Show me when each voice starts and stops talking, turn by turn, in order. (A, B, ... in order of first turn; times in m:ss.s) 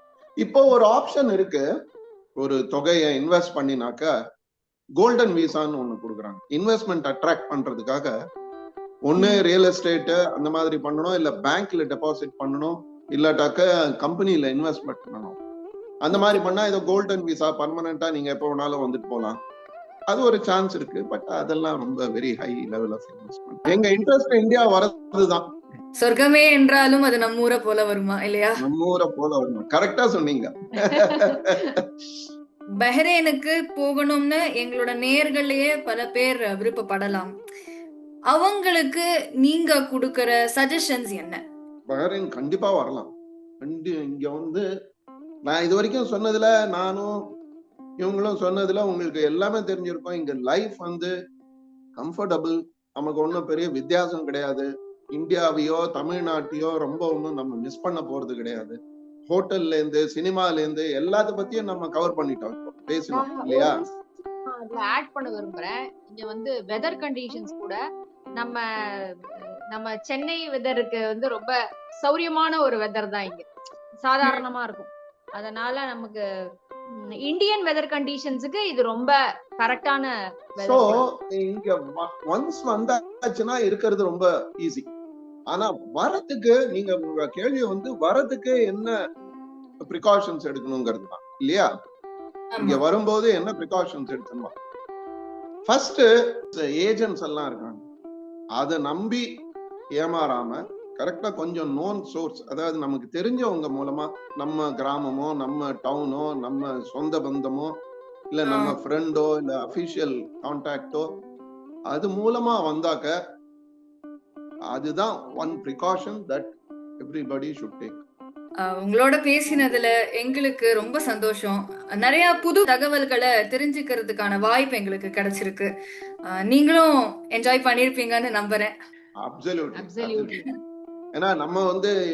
0:00.4-0:01.6 A
0:02.4-0:04.1 A
0:05.0-0:08.1 A
0:09.1-0:15.4 A
0:16.0-0:19.4 A
0:20.1-0:25.6 A
0:26.0-0:28.6 B
0:28.6-0:32.2 A
0:30.9-0:31.4 C
0:32.8-0:37.3 B
0:38.3-0:41.4 B
0:41.9-0:43.1 A
0:43.6-0:44.6 A
0:45.5-0:47.2 A
0:48.0-0:51.1 A
0:52.0-1:03.8 A
1:03.1-1:07.8 C
1:08.4-1:13.5 C
1:14.0-1:16.2 C
1:17.3-1:21.0 C
1:20.6-1:24.9 A
1:25.5-1:29.0 A
1:29.9-1:31.7 A
1:32.5-1:32.8 B
1:32.6-1:34.6 A
1:35.7-1:37.8 A
1:38.6-1:39.3 A
1:40.0-1:47.7 A
1:48.3-1:51.2 A
1:48.5-1:48.8 B
1:51.9-1:53.2 A
1:54.7-1:58.0 A
1:58.6-2:05.7 B
2:06.3-2:08.7 B
2:09.2-2:10.4 A
2:09.8-2:10.5 C
2:11.2-2:11.9 A